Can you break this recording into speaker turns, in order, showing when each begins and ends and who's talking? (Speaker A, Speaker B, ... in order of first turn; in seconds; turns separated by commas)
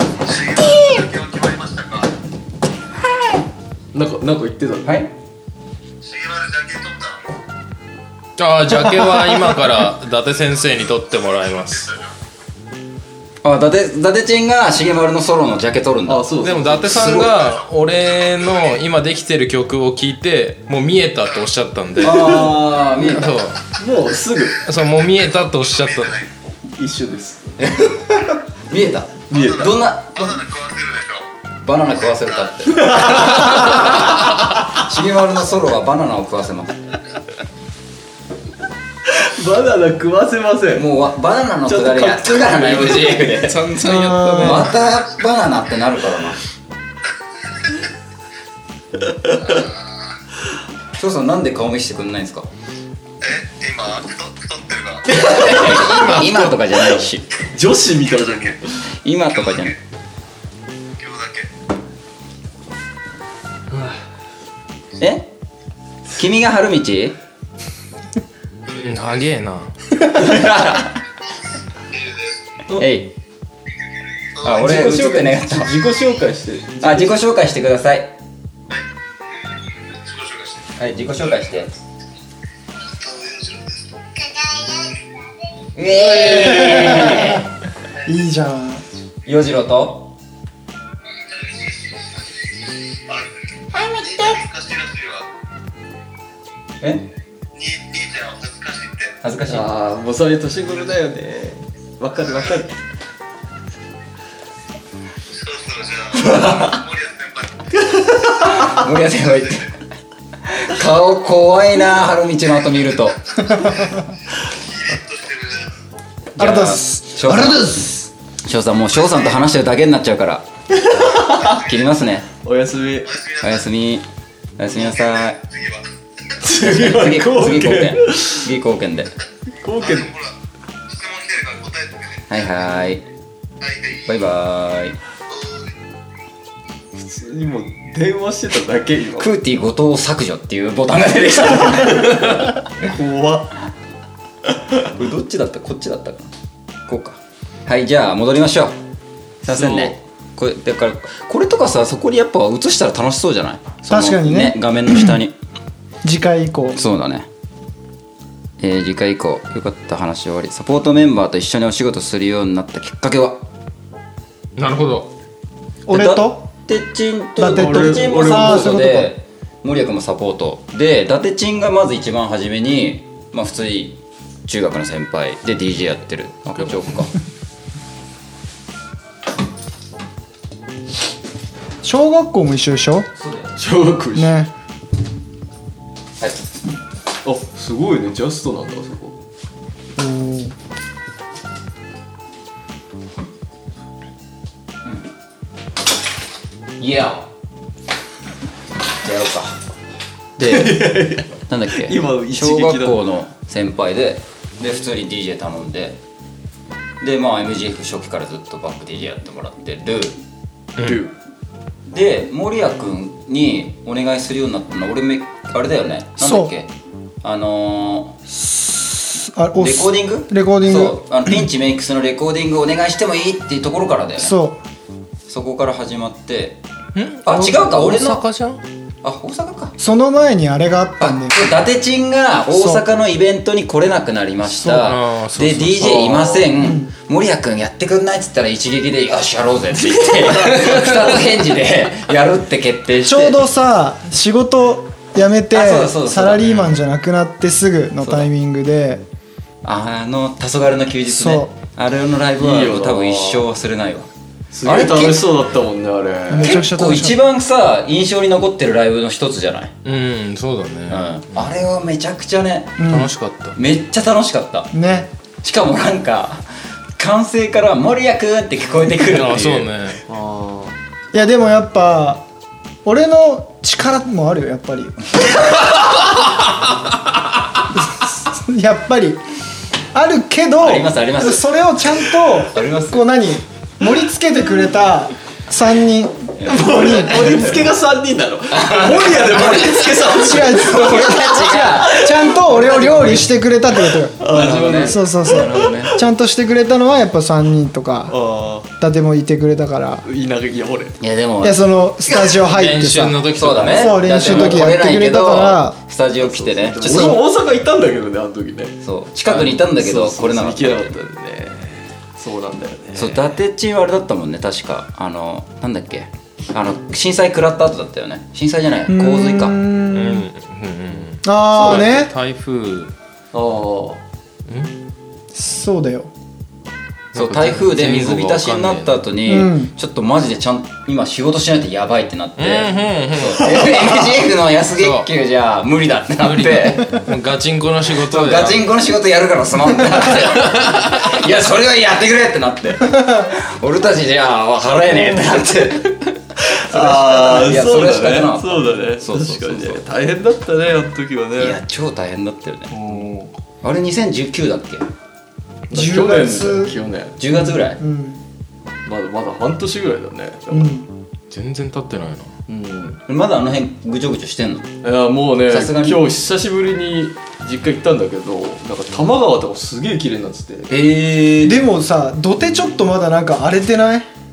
Speaker A: 0.3-2.1, Speaker B: 3.9-4.9, Speaker C: 4.8-5.1, Speaker A: 6.0-7.2, Speaker D: 8.4-11.9, Speaker A: 11.8-12.1, Speaker C: 13.4-17.4, Speaker B: 16.1-16.9, Speaker D: 16.4-23.7, Speaker A: 17.1-17.6, Speaker C: 22.0-23.4, Speaker B: 23.7-24.6, Speaker D: 24.6-26.2, Speaker A: 25.6-26.3, Speaker B: 26.8-27.6, Speaker C: 27.6-30.4, Speaker B: 29.3-29.8, Speaker A: 29.3-31.3, Speaker C: 31.6-36.8, Speaker B: 33.0-33.3, Speaker B: 39.1-40.9, Speaker C: 40.8-43.7, Speaker B: 41.7-43.3, Speaker D: 43.4-44.7, Speaker E: 43.8-44.7, Speaker C: 44.3-46.4, Speaker B: 49.1-49.6, Speaker C: 50.9-52.5, Speaker A: 53.2-55.1, Speaker C: 55.1-57.3, Speaker B: 55.2-58.8, Speaker A: 58.1-58.6, Speaker C: 59.0-59.8, Speaker A: 59.5-59.7, Speaker A: 61.0-61.5, Speaker C: 65.0-65.3, Speaker C: 66.1-67.2, Speaker D: 68.7-69.7, Speaker C: 70.1-71.0, Speaker A: 71.9-72.4, Speaker C: 72.7-73.1, Speaker A: 74.4-74.7, Speaker C: 74.4-75.8, Speaker B: 74.5-77.2, Speaker C: 76.8-78.1, Speaker A: 80.0-80.6, Speaker C: 80.8-81.7, Speaker A: 82.9-83.9, Speaker C: 85.8-87.5, Speaker E: 86.2-87.4, Speaker E: 88.0-88.8, Speaker C: 89.3-90.1, Speaker A: 91.3-92.5, Speaker A: 93.0-95.3, Speaker C: 96.8-97.1, Speaker A: 97.5-99.2, Speaker C: 99.2-99.7, Speaker B: 99.5-102.7, Speaker A: 105.3-107.9, Speaker C: 106.2-106.8, Speaker C: 108.3-109.7, Speaker C: 110.5-113.2, Speaker A: 113.5-113.9, Speaker A: 114.9-115.8, Speaker C: 116.4-120.5, Speaker E: 116.4-118.0, Speaker B: 120.9-121.4, Speaker C: 121.1-122.3, Speaker B: 122.4-123.1, Speaker A: 123.0-123.7, Speaker C: 123.4-124.0, Speaker C: 124.6-125.4, Speaker A: 125.3-125.8, Speaker B: 126.4-128.5, Speaker C: 126.5-129.1, Speaker B: 129.6-130.1, Speaker A: 129.8-130.3, Speaker A: 130.9-132.4, Speaker C: 132.3-133.0, Speaker A: 133.6-134.0, Speaker C: 134.1-135.0, Speaker A: 135.3-135.7, Speaker B: 136.9-139.3, Speaker C: 139.2-142.6, Speaker B: 141.7-143.6, Speaker C: 144.9-146.3, Speaker C: 146.9-148.8, Speaker C: 149.4-155.3, Speaker B: 149.5-149.9, Speaker E: 153.9-155.2, Speaker E: 156.0-156.8, Speaker C: 156.8-157.3, Speaker C: 158.6-163.4, Speaker D: 164.6-165.1, Speaker E: 165.9-166.5, Speaker C: 165.9-177.1, Speaker E: 167.4-169.1, Speaker B: 167.4-168.8, Speaker E: 181.8-183.1, Speaker C: 183.2-183.5, Speaker B: 183.6-184.4, Speaker E: 184.2-184.5, Speaker C: 186.2-186.6, Speaker B: 187.2-189.2, Speaker E: 190.0-190.5, Speaker C: 196.8-197.3, Speaker C: 199.0-199.6, Speaker C: 200.4-206.0, Speaker B: 200.4-203.0, Speaker C: 207.0-210.2, Speaker D: 210.8-211.0, Speaker B: 210.8-211.2, Speaker C: 211.9-216.7, Speaker E: 216.2-216.5, Speaker C: 217.2-218.2, Speaker E: 218.3-221.0, Speaker C: 219.6-224.3, Speaker E: 224.2-224.6, Speaker C: 225.3-226.6, Speaker D: 226.9-228.6, Speaker C: 227.2-228.2, Speaker C: 229.0-229.8, Speaker E: 229.8-231.4, Speaker C: 231.0-243.4, Speaker E: 232.5-232.8, Speaker D: 234.8-236.4, Speaker B: 236.0-236.3, Speaker E: 236.6-236.9, Speaker B: 240.1-241.1, Speaker E: 243.0-249.1, Speaker C: 245.5-246.6, Speaker D: 246.4-246.7, Speaker C: 248.0-248.3, Speaker C: 249.6-254.1, Speaker E: 251.1-251.5, Speaker B: 252.4-253.4, Speaker B: 254.5-256.6, Speaker C: 254.6-255.2, Speaker E: 256.3-257.2, Speaker C: 256.4-259.7, Speaker D: 259.8-261.1, Speaker C: 260.9-262.8, Speaker E: 262.8-263.1, Speaker D: 262.8-263.6, Speaker C: 263.6-264.7, Speaker E: 264.7-265.1, Speaker C: 265.4-269.7, Speaker D: 269.0-270.0, Speaker B: 270.1-270.8, Speaker E: 271.1-272.2, Speaker E: 272.9-275.0, Speaker E: 277.9-279.2, Speaker E: 279.9-287.4, Speaker C: 280.6-281.6, Speaker C: 282.4-283.1, Speaker C: 286.4-287.6, Speaker B: 286.5-293.2, Speaker C: 288.5-293.3, Speaker E: 290.1-294.2, Speaker B: 293.9-296.0, Speaker C: 294.2-296.0, Speaker E: 294.8-298.2, Speaker B: 298.1-298.7, Speaker E: 298.8-300.1, Speaker B: 300.0-301.0, Speaker C: 301.0-301.6, Speaker E: 301.4-305.8, Speaker D: 302.4-304.7, Speaker C: 303.3-307.2, Speaker B: 306.2-308.8, Speaker E: 306.8-307.2, Speaker C: 308.8-310.9, Speaker D: 309.3-309.6, Speaker B: 309.5-313.3, Speaker C: 313.0-319.6, Speaker E: 318.9-320.3, Speaker D: 319.9-322.9, Speaker E: 321.2-322.1, Speaker B: 323.3-324.0, Speaker D: 324.5-324.7, Speaker E: 325.3-326.1, Speaker D: 327.1-329.0, Speaker C: 327.1-336.9, Speaker E: 329.3-329.7, Speaker D: 332.4-334.0, Speaker D: 334.8-335.1, Speaker D: 336.2-338.7, Speaker C: 338.1-346.0, Speaker D: 339.9-341.2, Speaker B: 346.4-351.6, Speaker C: 346.7-349.9, Speaker C: 351.4-352.8, Speaker D: 352.7-353.3, Speaker C: 353.6-354.9, Speaker B: 355.7-357.2, Speaker E: 355.7-356.8, Speaker C: 357.2-357.8, Speaker E: 357.3-358.2, Speaker B: 358.9-360.8, Speaker E: 360.5-360.9, Speaker D: 361.3-362.4, Speaker B: 362.5-363.0, Speaker C: 363.1-364.7, Speaker B: 364.8-370.7, Speaker C: 365.5-366.0, Speaker C: 370.7-371.6, Speaker E: 371.4-374.1